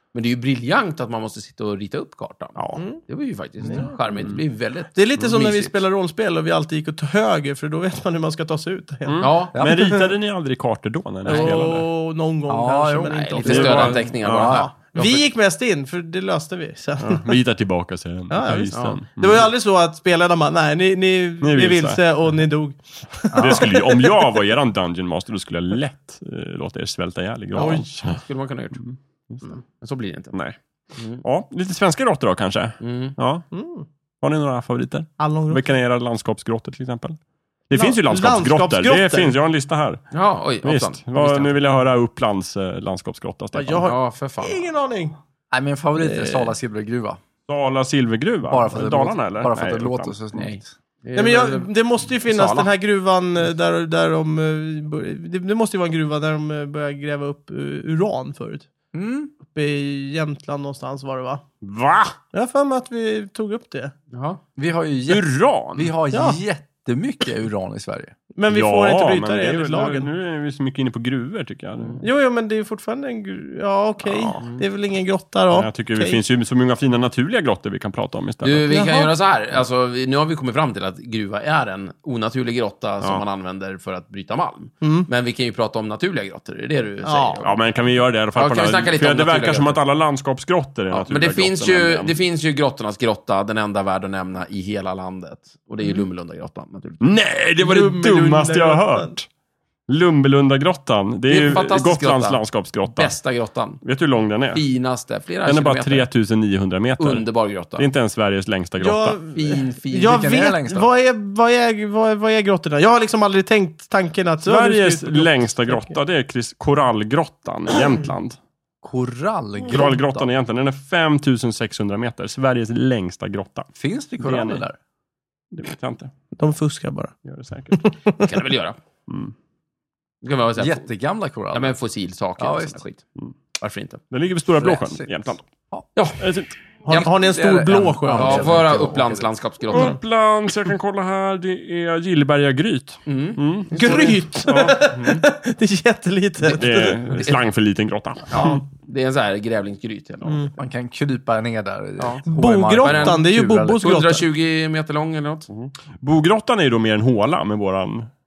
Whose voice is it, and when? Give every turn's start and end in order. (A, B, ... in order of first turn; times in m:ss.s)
0:00.1-0:05.8 A
0:02.6-0:02.8 B
0:03.6-0:04.0 C
0:05.0-0:10.1 C
0:09.1-0:11.9 B
0:09.2-0:09.6 A
0:09.5-0:09.9 D
0:11.2-0:17.3 C
0:12.5-0:14.7 D
0:13.1-0:15.2 A
0:13.4-0:14.6 B
0:17.0-0:19.5 B
0:18.3-0:24.3 C
0:18.7-0:19.0 A
0:21.4-0:22.0 B
0:23.3-0:23.7 D
0:23.4-0:28.2 B
0:27.6-0:28.8 A
0:27.6-0:27.8 C
0:28.8-0:29.5 B
0:29.4-0:30.4 A
0:31.0-0:31.2 A
0:31.2-0:33.5 B
0:32.8-0:33.2 A
0:33.5-0:33.9 C
0:34.2-0:37.2 B
0:35.2-0:35.6 C
0:37.7-0:40.0 B
0:37.7-0:39.4 C
0:40.1-0:41.5 A
0:40.6-0:43.9 B
0:43.5-0:45.2 C
0:43.8-0:44.6 A
0:45.5-0:47.2 D
0:46.0-0:46.5 C
0:47.5-0:50.2 B
0:48.5-0:50.7 D
0:50.4-0:51.7 A
0:51.2-0:58.7 C
0:52.2-0:52.7 A
0:58.9-0:59.3 D
0:59.5-1:01.4 C
1:01.6-1:02.1 B
1:02.3-1:03.9 C
1:04.1-1:04.4 A
1:04.6-1:08.1 D
1:05.1-1:05.9 B
1:06.1-1:06.4 C
1:08.4-1:10.1 C
1:08.5-1:12.0 B
1:12.0-1:16.2 C
1:14.0-1:14.5 B
1:14.4-1:14.6 A
1:15.5-1:18.7 B
1:18.4-1:27.6 A
1:18.7-1:19.1 C
1:24.8-1:25.1 C
1:27.0-1:27.4 C
1:27.4-1:32.2 B
1:28.4-1:29.8 A
1:30.9-1:37.1 A
1:37.0-1:39.3 B
1:37.6-1:39.1 C
1:39.9-1:43.2 B
1:41.3-1:43.8 A
1:43.8-1:44.6 B
1:44.5-1:46.1 A
1:45.4-1:49.2 B
1:47.0-1:47.9 A
1:48.8-1:55.9 C
1:49.3-1:50.3 A
1:50.0-1:50.9 D
1:54.4-1:58.4 B
1:58.8-2:00.3 D
1:59.7-2:03.7 B
2:03.8-2:04.8 D
2:04.2-2:04.6 B
2:05.5-2:06.1 B
2:06.4-2:07.1 C
2:07.2-2:07.8 B
2:07.7-2:08.3 C
2:08.2-2:08.8 A
2:09.1-2:09.3 B
2:10.2-2:10.9 A
2:10.6-2:11.8 D
2:11.5-2:13.0 A
2:12.4-2:12.8 D
2:13.6-2:14.0 A
2:14.1-2:15.4 B
2:14.6-2:15.9 D
2:16.0-2:16.2 A
2:16.2-2:16.6 B
2:16.8-2:18.6 C
2:16.9-2:19.3 D
2:18.2-2:20.0 A
2:19.7-2:25.2 B
2:23.1-2:24.3 A
2:23.7-2:27.2 C
2:26.4-2:28.6 B
2:28.3-2:30.5 A
2:30.2-2:30.5 C
2:30.6-2:33.9 D
2:32.0-2:32.2 A
2:32.3-2:34.2 C
2:32.8-2:35.5 A
2:35.5-2:38.1 B